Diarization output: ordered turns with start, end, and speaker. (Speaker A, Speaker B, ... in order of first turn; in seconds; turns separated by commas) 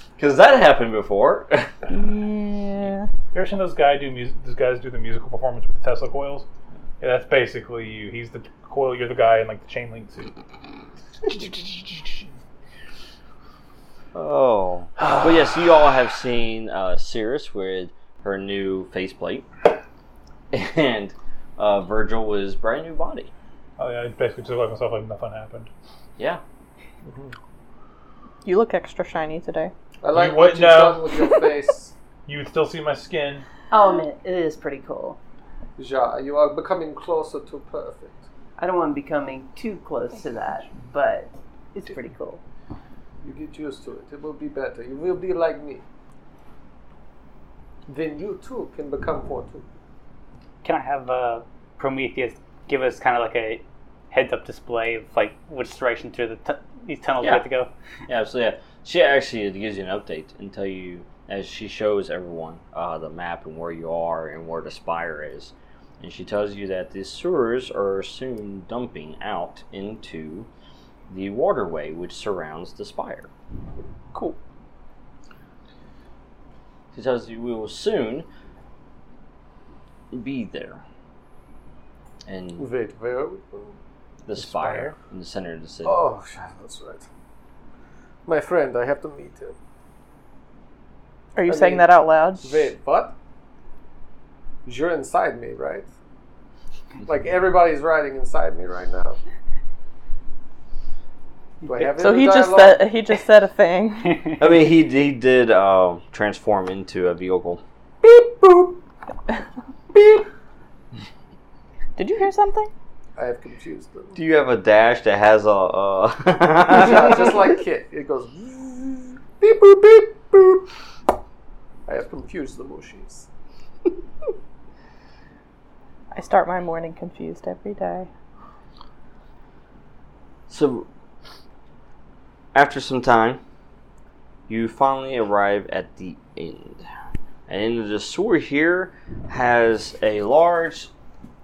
Speaker A: 0.2-1.7, Speaker B: 1.9-3.1, Speaker C: 3.3-6.5, Speaker C: 7.0-10.3, Speaker C: 11.3-12.2, Speaker A: 14.1-19.5, Speaker A: 20.5-23.3, Speaker C: 23.8-25.7, Speaker A: 26.2-26.4, Speaker B: 28.4-29.7, Speaker D: 30.0-31.9, Speaker C: 30.1-31.2, Speaker C: 32.2-33.5, Speaker E: 33.7-35.2, Speaker D: 35.8-38.2, Speaker E: 38.6-42.4, Speaker D: 43.2-45.8, Speaker D: 47.9-49.6, Speaker F: 50.6-57.7, Speaker A: 58.1-70.5, Speaker A: 71.1-73.3, Speaker A: 76.9-78.3, Speaker A: 80.1-80.8, Speaker A: 82.2-82.7, Speaker D: 82.6-83.8, Speaker A: 84.2-86.0, Speaker D: 85.8-87.0, Speaker D: 88.2-89.5, Speaker B: 91.4-92.7, Speaker D: 91.5-93.1, Speaker D: 94.7-95.9, Speaker D: 97.0-99.2, Speaker D: 101.6-102.9, Speaker B: 102.0-104.3, Speaker A: 104.4-107.6, Speaker D: 108.0-108.8, Speaker B: 112.0-112.7, Speaker D: 113.2-114.2, Speaker A: 114.2-117.3, Speaker D: 116.7-120.7, Speaker D: 121.9-123.3, Speaker B: 126.1-128.1, Speaker A: 130.5-130.9, Speaker A: 132.5-133.4, Speaker A: 134.5-136.9, Speaker A: 137.5-140.9